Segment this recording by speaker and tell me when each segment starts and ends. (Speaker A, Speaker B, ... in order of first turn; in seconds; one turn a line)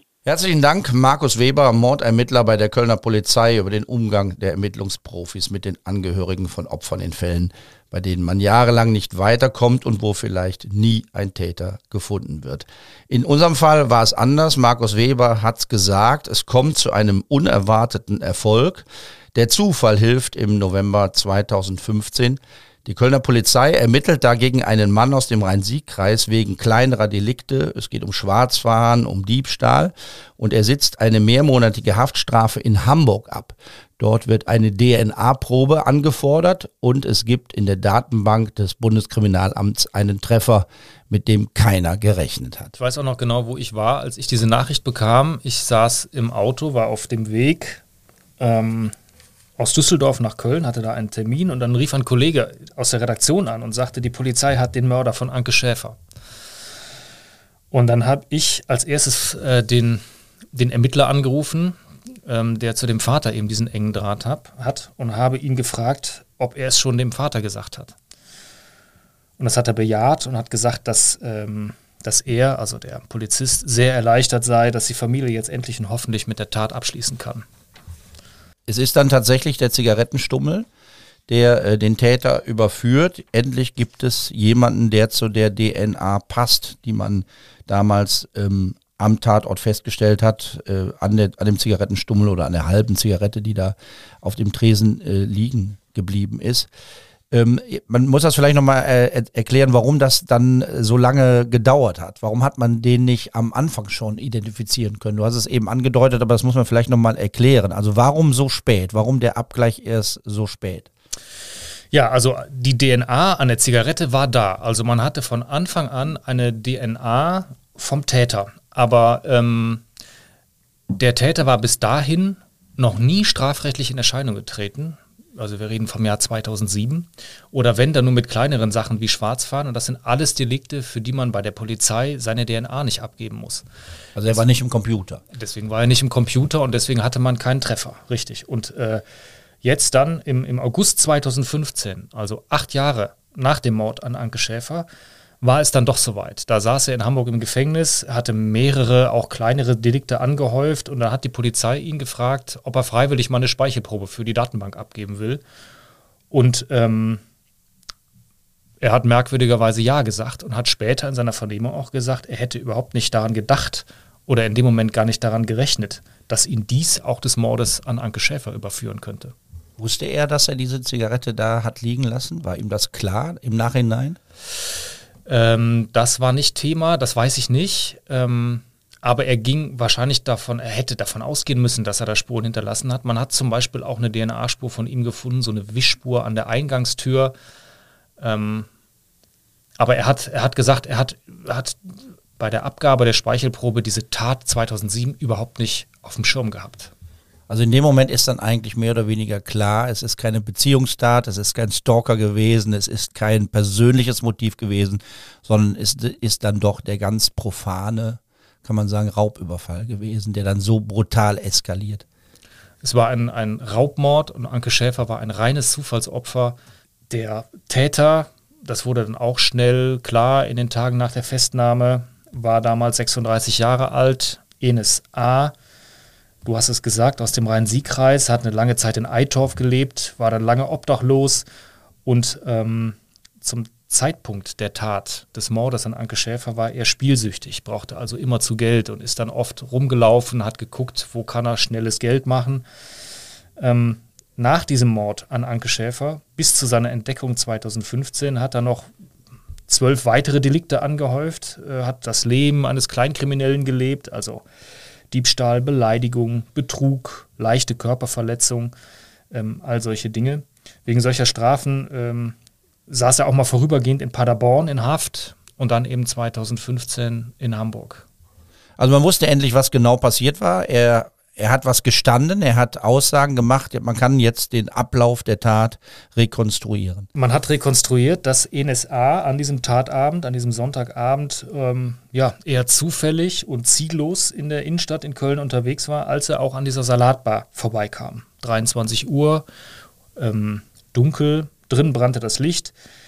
Speaker A: 0.2-42.7
Speaker B: 42.8-47.8
Speaker B: 48.4-48.9
Speaker B: 49.6-56.0
Speaker B: 57.7-60.0
Speaker B: 60.5-68.0
Speaker B: 69.4-77.5
Speaker A: 78.7-80.7
Speaker A: 81.3-96.7
Speaker A: 97.3-110.9
Speaker B: 111.9-119.8
Speaker B: 121.0-133.7
Speaker A: 134.2-135.2
Speaker B: 135.3-139.0
Speaker B: 139.6-144.9
Speaker B: 145.4-155.4
Speaker B: 156.3-157.2
Speaker B: 158.8-169.3
Speaker A: 169.8-174.2
Speaker B: 175.3-187.3
Speaker B: 188.2-188.7
Speaker B: 189.8-191.8
Speaker B: 192.4-196.9
Speaker A: 197.5-212.0
Speaker B: 212.8-216.6
Speaker B: 217.1-225.5
Speaker B: 226.4-231.4
Speaker B: 232.1-242.6
Speaker B: 243.6-248.9
Speaker B: 249.7-254.4
Speaker B: 255.1-258.7
Speaker B: 259.3-262.4
Speaker B: 262.9-268.1
Speaker A: 268.8-277.1
Speaker B: 277.1-289.4
Speaker B: 290.2-292.7